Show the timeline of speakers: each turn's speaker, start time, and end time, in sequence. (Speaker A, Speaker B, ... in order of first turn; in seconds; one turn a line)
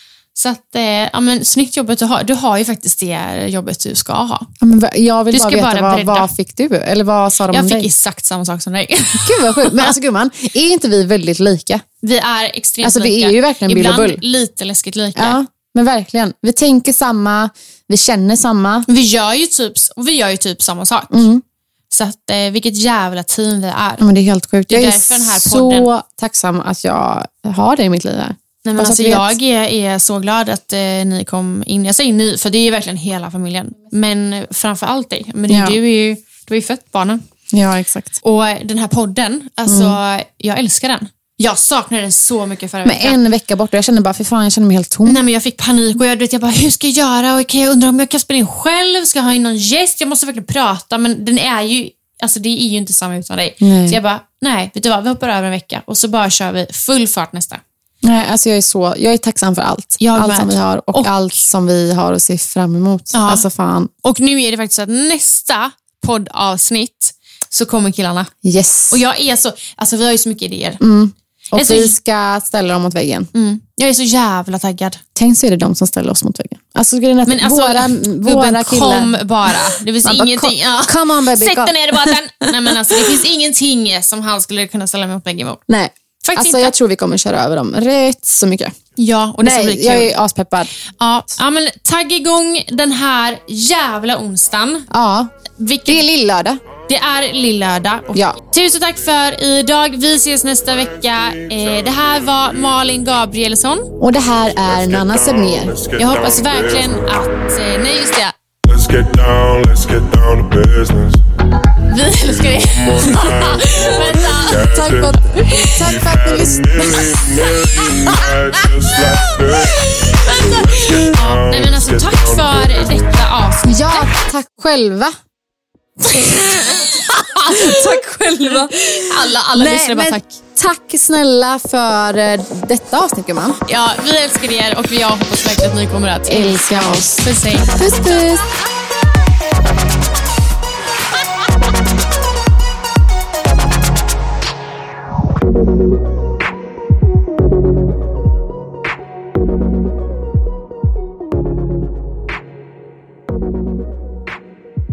Speaker A: 0.3-4.5
Speaker B: 4.6-7.9
Speaker A: 5.3-6.3
Speaker A: 7.5-9.9
Speaker B: 9.2-11.8
Speaker A: 12.0-15.4
Speaker B: 12.8-14.2
Speaker B: 15.2-18.9
Speaker A: 18.9-21.3
Speaker B: 21.1-21.4
Speaker A: 21.9-24.0
Speaker B: 24.0-29.4
Speaker A: 24.7-25.9
Speaker A: 28.6-37.2
Speaker B: 35.5-35.8
Speaker B: 37.5-38.2
Speaker A: 38.2-43.2
Speaker B: 39.7-40.0
Speaker B: 42.8-45.2
Speaker A: 45.0-57.6
Speaker B: 53.6-54.0
Speaker B: 58.0-63.9
Speaker A: 60.0-61.1
Speaker A: 63.1-63.5
Speaker A: 64.0-68.3
Speaker B: 68.4-69.0
Speaker A: 68.9-70.8
Speaker B: 70.8-73.3
Speaker A: 71.5-71.9
Speaker A: 73.3-75.0
Speaker B: 75.2-83.2
Speaker A: 77.2-85.6
Speaker B: 85.7-88.7
Speaker A: 86.2-86.7
Speaker A: 89.0-90.1
Speaker B: 89.4-90.7
Speaker A: 91.0-94.9
Speaker B: 94.9-95.3
Speaker A: 95.6-96.0
Speaker B: 95.8-96.6
Speaker A: 96.9-103.9
Speaker C: 101.4-102.6
Speaker B: 104.0-105.8
Speaker C: 104.6-107.3
Speaker A: 106.0-108.3
Speaker C: 108.6-111.2
Speaker A: 111.9-115.9
Speaker C: 112.2-115.2
Speaker B: 114.3-117.0
Speaker C: 115.8-123.2
Speaker A: 117.7-118.2
Speaker A: 120.2-124.1
Speaker B: 123.7-125.1
Speaker B: 126.0-133.6
Speaker A: 126.1-130.3
Speaker A: 133.7-137.8
Speaker B: 136.3-138.5